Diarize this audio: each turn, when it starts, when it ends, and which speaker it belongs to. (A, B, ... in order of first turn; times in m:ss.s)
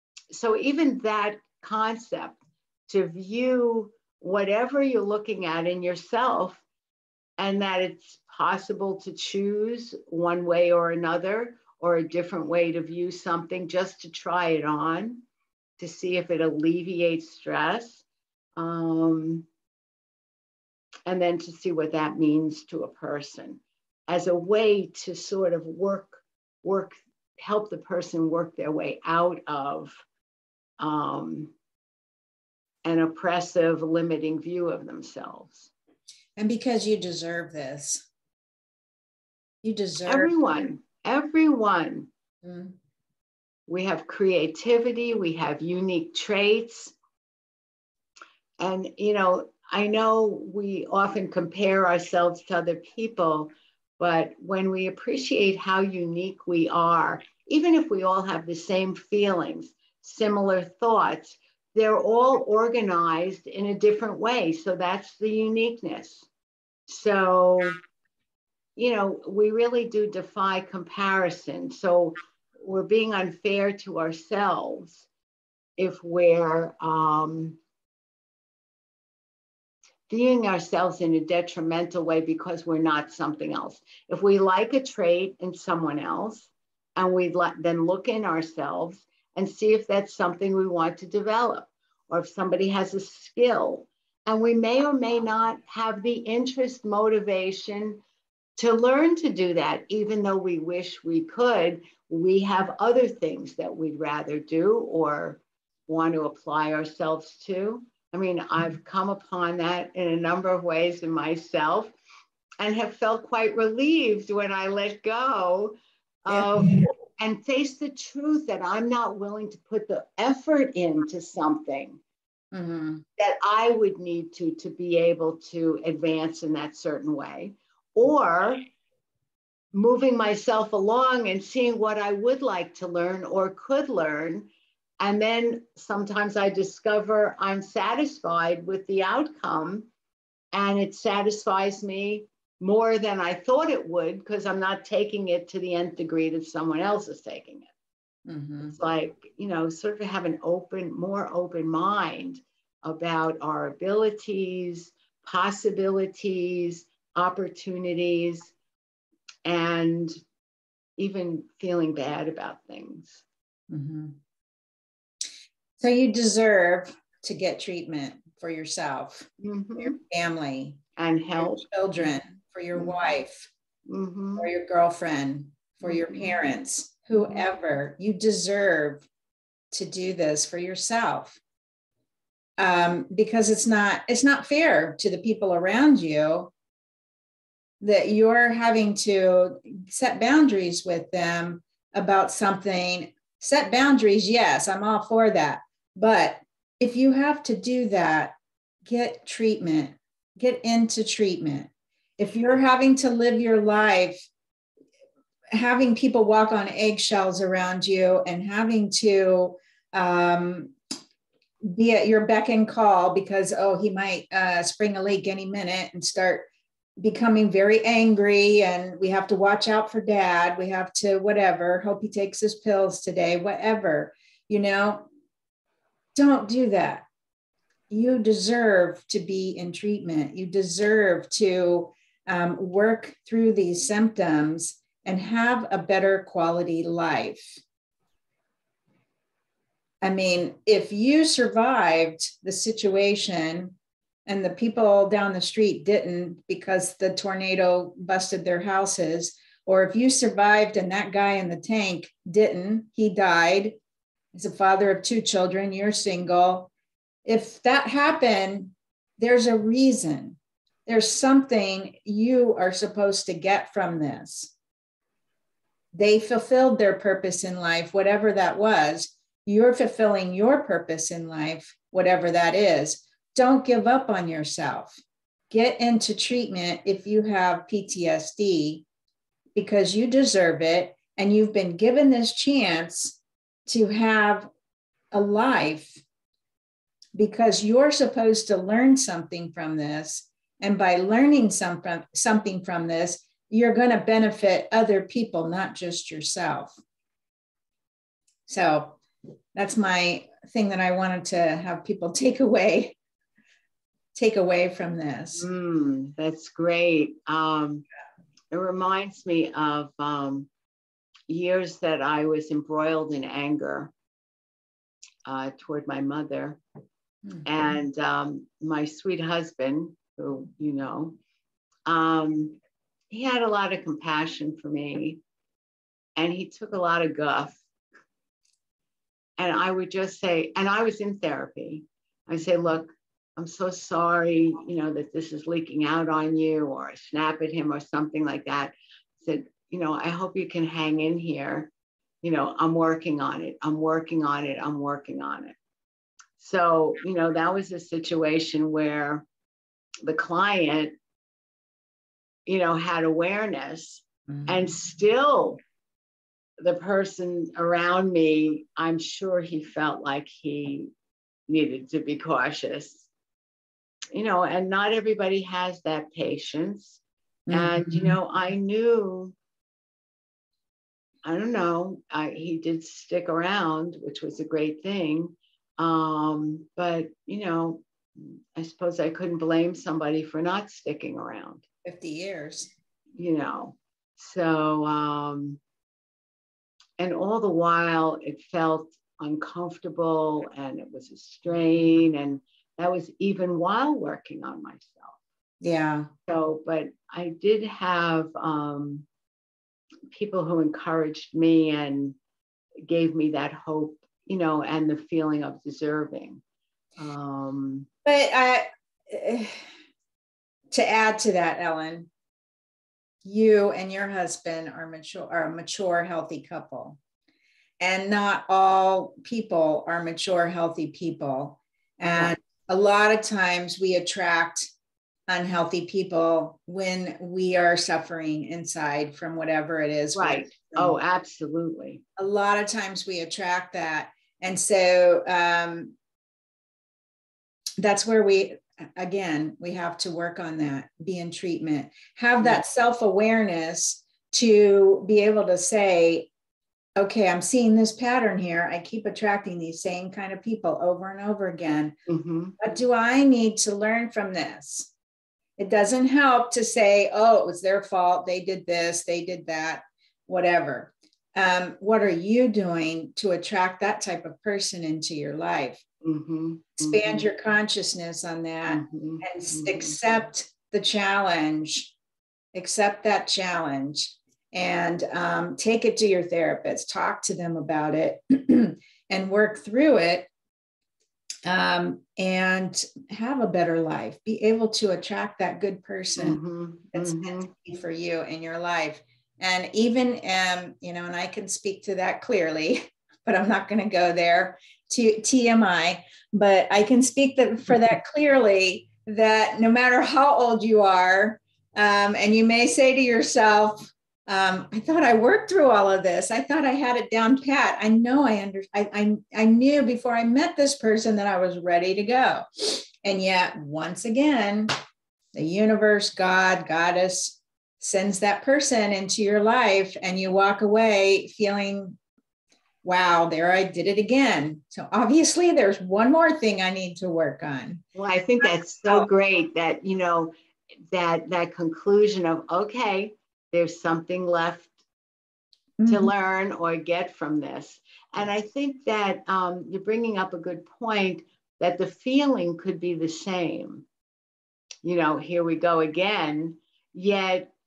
0:00.3-0:06.6 A
0:07.4-0:15.2 A
0:15.8-0:18.0 A
0:18.6-0:19.4 A
0:21.0-0:30.0 A
0:30.8-0:31.5 A
0:32.8-0:35.7 A
0:36.4-0:38.0 B
0:39.6-0:40.3 B
0:40.0-0:42.1 A
0:42.4-0:42.7 B
0:43.7-0:46.9 A
0:48.6-1:06.3 A
1:06.9-1:07.8 A
1:08.8-1:15.1 A
1:15.8-1:17.6 A
1:20.1-1:38.0 A
1:38.6-1:51.9 A
1:52.6-2:02.0 A
1:56.3-1:56.9 B
2:02.5-2:03.0 B
2:03.2-2:08.6 A
2:09.7-2:14.5 A
2:15.0-2:19.9 A
2:20.5-2:27.7 A
2:28.3-2:28.8 B
2:28.7-2:38.5 A
2:39.4-2:40.1 A
2:41.0-2:43.2 A
2:43.7-2:44.2 B
2:45.8-2:50.8 B
2:49.4-2:50.0 A
2:51.0-2:51.6 A
2:51.4-2:53.5 B
2:53.8-2:54.5 A
2:54.4-2:59.0 B
2:55.8-2:56.3 A
2:57.2-2:57.4 A
2:59.7-3:01.4 B
3:02.6-3:06.5 B
3:07.8-3:18.3 B
3:18.8-3:24.2 B
3:25.5-3:30.7 B
3:31.6-3:36.5 B
3:37.0-3:45.1 B
3:46.1-3:47.0 B
3:47.9-3:57.6 B
4:00.0-4:03.7 B
4:04.2-4:13.8 B
4:14.3-4:16.7 B
4:17.2-4:24.5 B
4:25.9-4:38.8 B
4:39.5-4:44.5 B
4:45.1-4:46.0 B
4:47.1-4:56.7 B
4:58.5-4:59.0 B
4:59.5-5:03.0 B
5:04.1-5:05.4 B
5:05.4-5:07.8 A
5:08.5-5:10.5 A
5:11.3-5:13.9 A
5:15.2-5:16.6 A
5:17.4-5:21.2 A
5:21.9-5:22.6 A
5:23.1-5:25.2 A
5:26.2-5:27.6 A
5:29.4-5:41.7 A
5:42.2-5:45.5 A
5:46.4-5:49.2 A
5:50.0-5:50.9 A
5:52.4-5:55.6 A
5:54.3-5:54.6 B
5:56.6-6:00.9 A
6:01.5-6:03.1 A
6:04.1-6:07.0 A
6:07.5-6:08.2 B
6:07.5-6:09.3 A
6:11.2-6:17.8 A
6:18.5-6:21.6 A
6:21.8-6:22.7 B
6:23.1-6:25.6 A
6:27.0-6:35.2 A
6:35.6-6:36.1 B
6:36.3-6:39.0 A
6:40.1-6:42.2 A
6:42.8-6:46.4 A
6:47.0-6:47.9 A
6:48.0-6:49.6 B
6:50.7-6:52.1 B
6:53.2-6:57.0 B
6:57.8-7:04.7 B
7:05.3-7:11.0 B
7:10.1-7:12.0 A
7:12.2-7:15.9 B
7:17.8-7:26.3 B
7:27.0-7:32.0 B
7:32.1-7:32.5 A
7:32.6-7:34.9 B
7:35.6-7:45.8 B
7:46.0-7:47.3 A
7:46.8-7:51.9 B
7:48.7-7:50.0 A
7:52.5-8:00.3 B
8:01.4-8:06.4 B
8:06.2-8:07.5 A
8:06.9-8:34.7 B
8:35.3-8:42.0 B
8:42.8-8:47.8 B
8:47.9-8:50.3 A
8:48.4-8:49.0 B
8:50.9-8:54.7 A
8:55.8-8:56.1 B
8:55.9-9:03.8 A
9:04.8-9:07.5 A